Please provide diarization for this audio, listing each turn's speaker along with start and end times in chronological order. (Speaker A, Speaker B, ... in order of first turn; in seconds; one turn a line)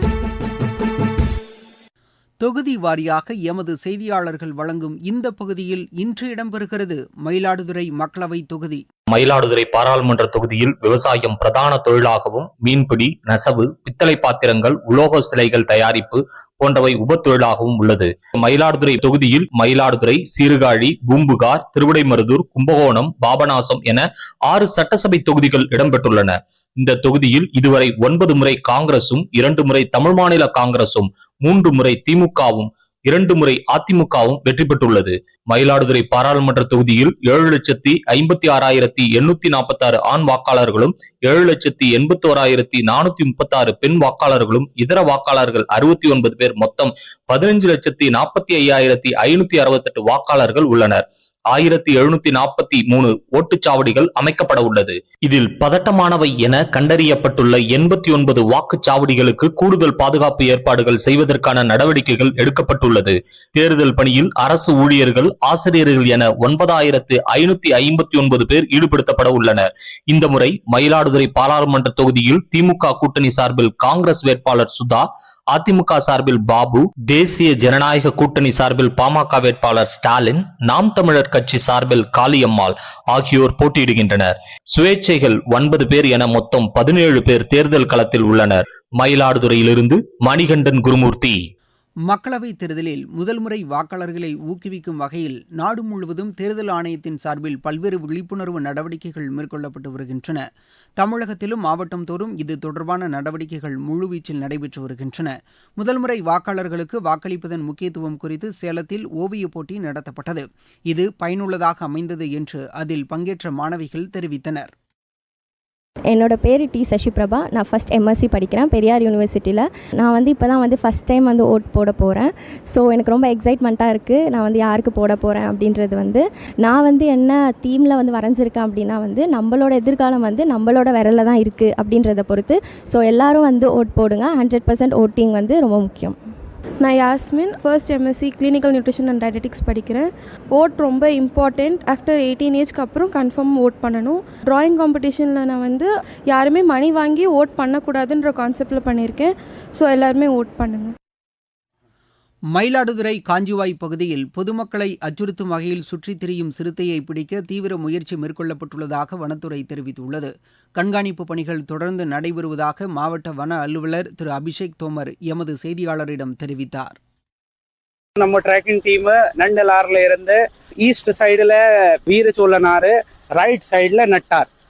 Speaker A: 2.4-8.8
Speaker B: 9.1-91.3
Speaker A: 92.1-100.4
Speaker A: 101.0-114.7
Speaker C: 116.1-136.2
Speaker D: 136.8-150.9
Speaker A: 152.5-167.0
Speaker E: 168.2-174.5